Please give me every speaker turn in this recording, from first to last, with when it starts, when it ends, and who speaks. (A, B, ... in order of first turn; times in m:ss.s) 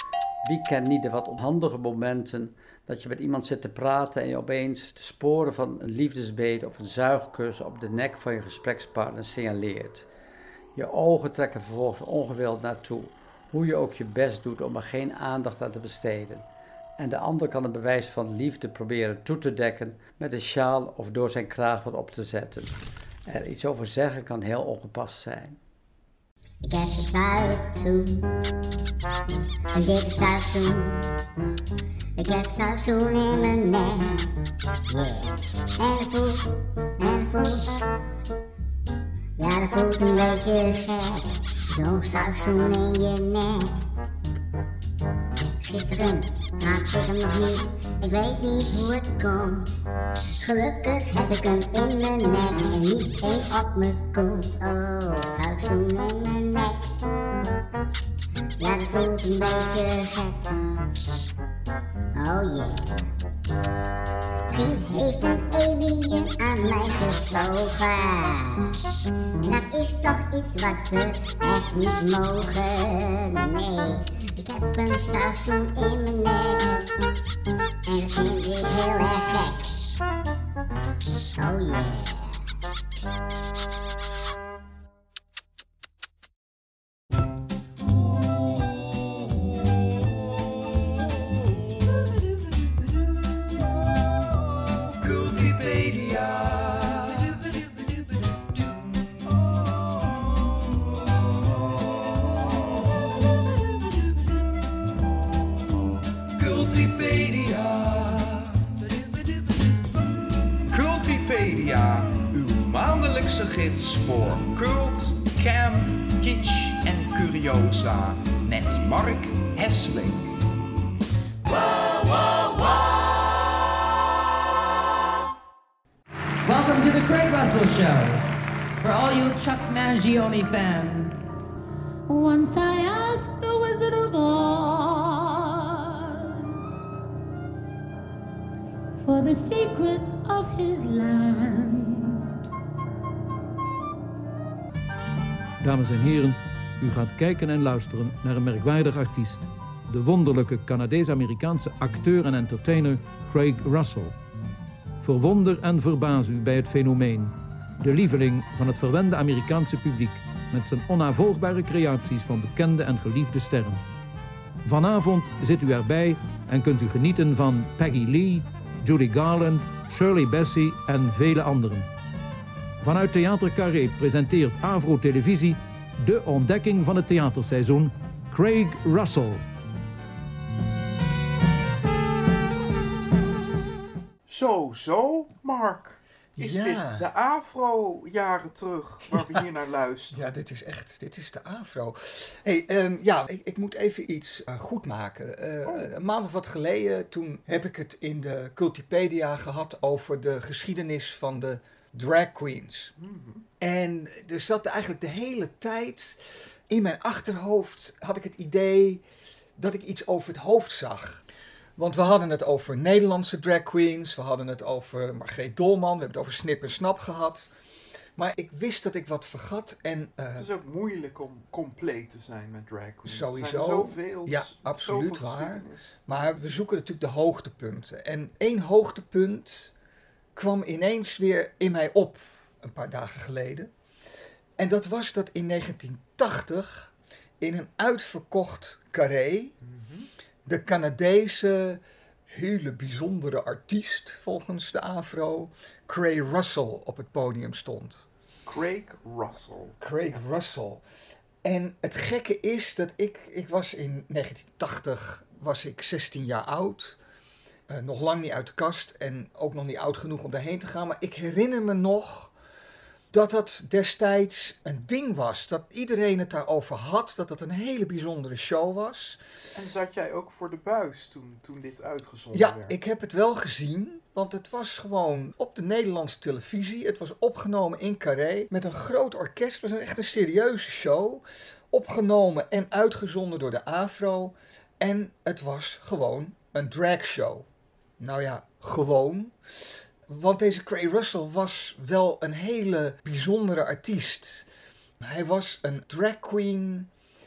0:00.4-0:10.1 A
0:10.7-0:16.4 A
0:17.0-0:25.6 A
0:26.6-0:28.2 B
0:29.7-0:31.0 B
0:32.2-0:34.2 B
0:34.9-0:37.8 B
0:39.4-0:43.7 B
0:45.6-0:49.6 B
0:50.4-0:56.9 B
0:58.6-1:00.5 B
1:02.1-1:03.0 B
1:04.5-1:08.7 B
1:09.4-1:16.8 B
1:17.8-1:19.9 B
1:21.3-1:22.4 B
1:35.0-1:37.2 C
1:46.4-1:48.9 C
1:50.7-2:00.3 C
2:06.4-2:08.2 D
2:08.8-2:11.2 D
2:12.1-2:16.3 E
2:19.0-2:22.2 E
2:25.6-2:34.2 F
2:35.0-2:43.8 F
2:44.6-2:51.9 F
2:52.8-2:59.4 F
3:04.2-3:10.4 C
3:06.4-3:07.0 G
3:10.1-3:22.9 G
3:15.6-3:15.9 C
3:23.0-3:23.4 C
3:23.6-3:26.2 G
3:26.7-3:29.0 G
3:29.6-3:31.2 G
3:31.8-3:37.5 G
3:38.2-3:40.5 G
3:40.4-3:46.0 C
3:43.0-3:49.7 G
3:50.3-3:53.7 G
3:54.6-3:59.5 G
3:59.6-4:00.1 C
4:00.5-4:08.0 G
4:08.4-4:10.2 C
4:09.8-4:10.8 G
4:11.4-4:17.0 G
4:17.7-4:22.3 G
4:23.1-4:29.2 G
4:29.5-4:32.8 C
4:32.3-4:47.4 G
4:48.0-4:49.3 G
4:50.1-4:54.4 G
4:55.0-4:56.9 G